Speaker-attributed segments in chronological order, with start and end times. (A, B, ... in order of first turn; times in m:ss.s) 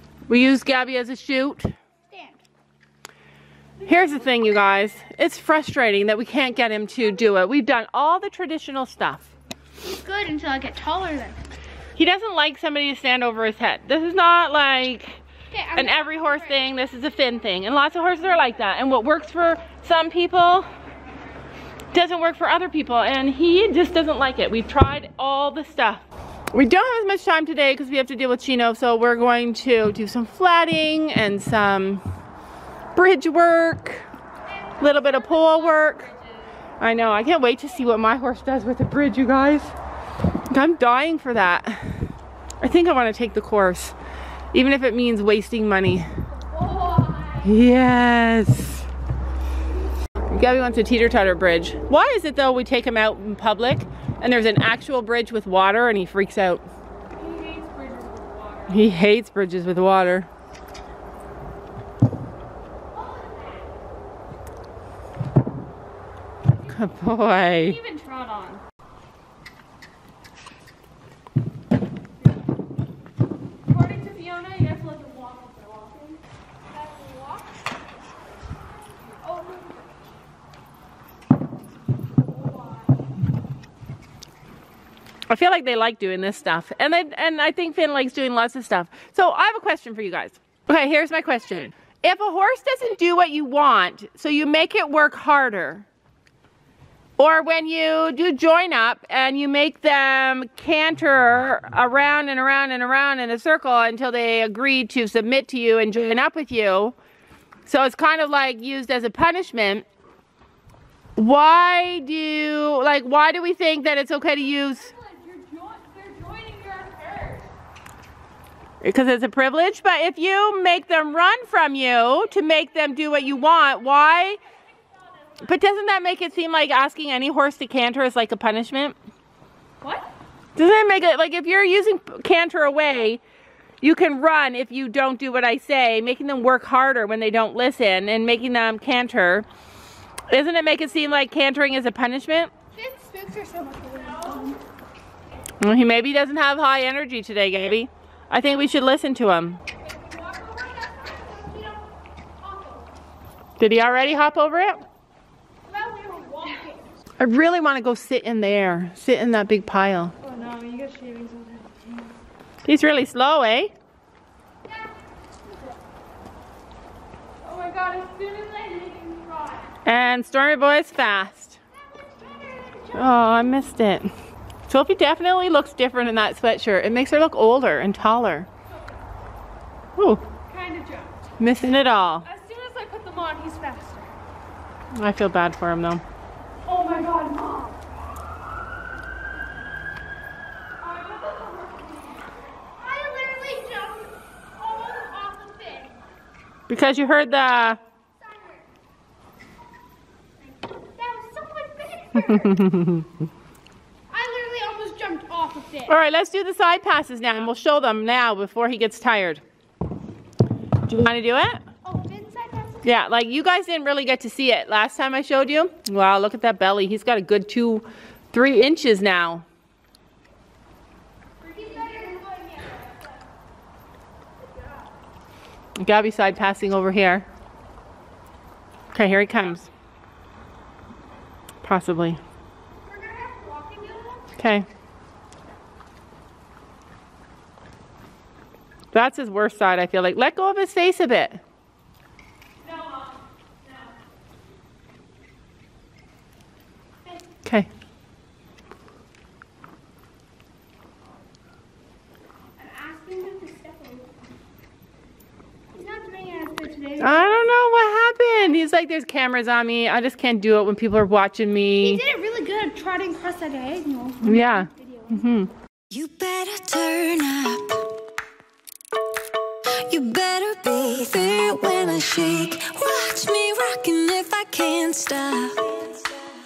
0:00.3-0:01.7 A
0:02.1-0:02.4 B
0:03.8-0:09.3 A
0:09.8-0:11.4 B
0:12.0-0:15.2 A
0:15.5-0:16.6 B
0:15.8-0:20.7 A
0:21.9-0:32.0 A
0:33.0-0:34.1 A
0:34.5-0:36.5 C
0:34.8-0:36.1 A
0:36.8-0:39.7 A
0:40.5-0:44.0 A
0:44.5-0:46.1 A
0:46.6-0:47.5 B
0:47.4-0:48.9 A
0:50.3-0:56.6 A
0:57.1-0:58.9 C
0:58.7-1:00.3 A
1:02.9-1:03.6 B
1:06.7-1:07.8 A
1:07.5-1:08.6 C
1:13.7-1:16.2 C
1:16.8-1:17.4 B
1:19.3-1:19.8 B
1:25.3-1:35.9 A
1:37.2-1:47.0 A
1:47.7-1:49.8 A
1:51.2-1:54.9 A
1:54.6-1:57.5 C
1:58.8-2:04.4 A
2:04.9-2:05.5 C
2:05.4-2:09.0 A
2:09.8-2:10.1 C
2:10.6-2:13.2 A
2:13.8-2:19.5 A
2:20.3-2:22.5 A
2:22.8-2:24.6 B
2:24.2-2:24.5 C
2:25.6-2:29.6 A
2:29.8-2:31.8 B
2:32.4-2:32.9 B
2:33.6-2:34.8 A
2:35.7-2:36.8 B
2:37.2-2:40.2 A
2:40.2-2:42.1 C
2:42.6-2:43.7 A
2:47.4-2:49.7 C
2:49.8-2:51.6 A
2:51.9-2:53.1 B
2:52.9-2:54.1 A
2:54.7-2:58.5 A
3:00.0-3:00.2 A
3:00.5-3:01.3 C
3:01.4-3:02.3 A
3:02.2-3:04.1 C
3:05.0-3:06.0 A
3:06.6-3:07.8 C
3:10.8-3:12.3 C
3:12.8-3:15.9 B
3:16.7-3:17.8 A
3:18.3-3:18.6 B
3:21.0-3:22.7 B
3:22.5-3:23.1 A
3:24.1-3:25.9 B
3:25.9-3:29.4 A
3:30.9-3:31.6 A
3:31.8-3:32.9 B
3:32.8-3:39.4 A
3:41.4-3:43.0 B
3:45.8-3:47.3 A
3:48.9-3:49.7 A
3:51.6-3:52.2 A
3:52.9-3:54.2 B
3:54.4-3:54.7 A
3:58.9-4:01.4 A
4:02.7-4:03.1 C
4:12.6-4:14.1 B
4:15.7-4:17.5 B
4:17.0-4:22.0 A
4:21.8-4:25.1 B
4:24.2-4:25.5 A
4:25.9-4:27.8 D
4:29.9-4:35.9 D